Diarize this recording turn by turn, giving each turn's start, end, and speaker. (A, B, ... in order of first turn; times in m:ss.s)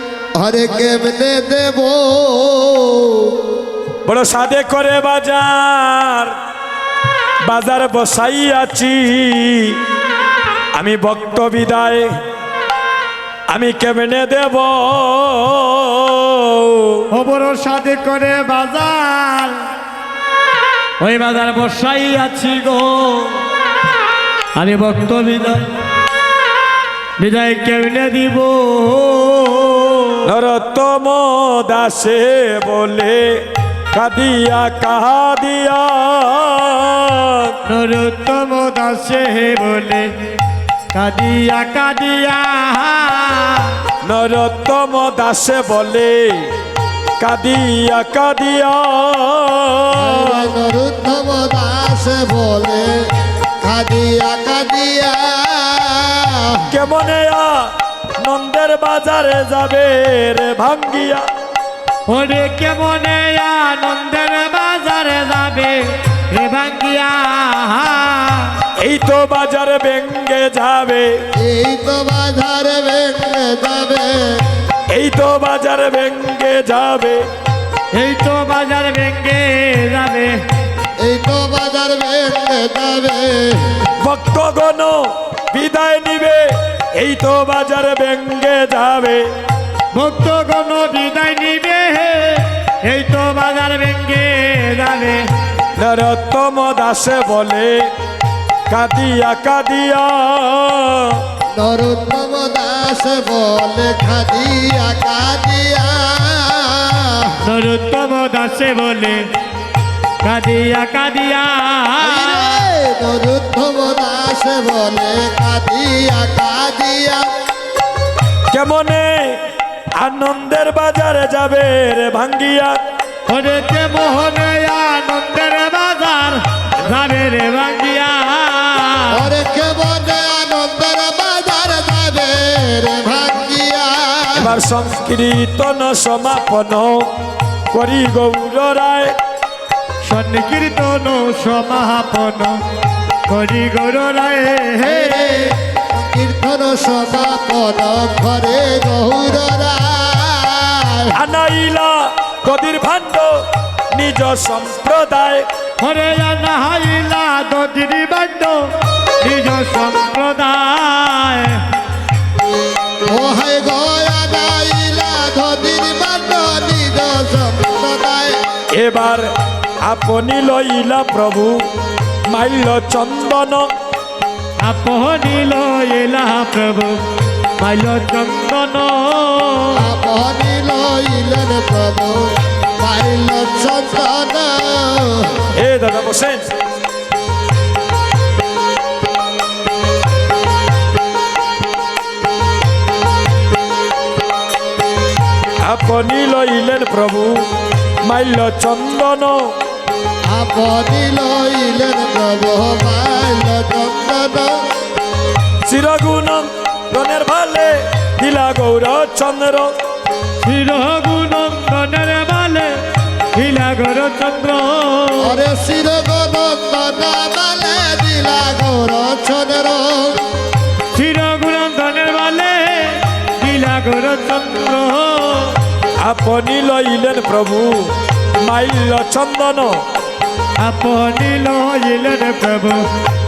0:00.4-0:03.5 A
0:04.0-0:06.4 B
0:07.4-0:09.8 B
0:10.7-0:12.1 B
0:13.5-0:17.1 B
0:17.1-0:19.6 C
0:21.0-0:23.5 C
0:24.6-0:25.7 C
0:27.2-0:30.2 C
0:30.2-0:37.5 B
0:37.6-0:40.1 C
0:40.9-0:43.8 C
0:44.0-0:46.5 B
0:47.2-0:50.4 B
0:50.0-0:53.1 A
0:53.6-0:56.7 A
0:56.7-1:01.3 B
1:02.1-1:08.6 C
1:08.8-1:11.2 B
1:11.4-1:14.5 A
1:14.9-1:17.2 B
1:17.9-1:20.4 C
1:21.0-1:23.8 A
1:24.0-1:29.3 B
1:29.9-1:35.3 C
1:35.8-1:37.9 B
1:38.7-1:41.2 B
1:41.5-1:47.4 A
1:47.4-1:49.3 C
1:50.2-1:52.6 C
1:52.0-1:57.3 A
1:58.5-1:59.4 B
2:00.0-2:02.8 B
2:03.3-2:09.3 C
2:09.1-2:14.6 A
2:14.3-2:17.1 B
2:17.7-2:19.2 B
2:20.0-2:22.6 C
2:23.3-2:25.5 C
2:24.8-2:31.2 A
2:31.1-2:35.5 B
2:35.8-2:38.6 C
2:39.2-2:41.6 C
2:43.0-2:48.4 A
2:48.7-2:49.3 B
2:49.8-2:51.7 B
2:52.3-2:53.7 B
2:54.6-2:57.0 C
2:57.6-2:59.9 C
2:59.7-3:05.5 A
3:05.5-3:06.4 B
3:15.6-3:17.5 B
3:18.0-3:19.5 B
3:20.3-3:24.6 A
3:25.6-3:29.7 B
3:30.4-3:32.7 C
3:33.4-3:35.4 C
3:35.2-3:40.3 A
3:40.9-3:45.6 C
3:46.0-3:49.8 B
3:50.6-3:52.9 C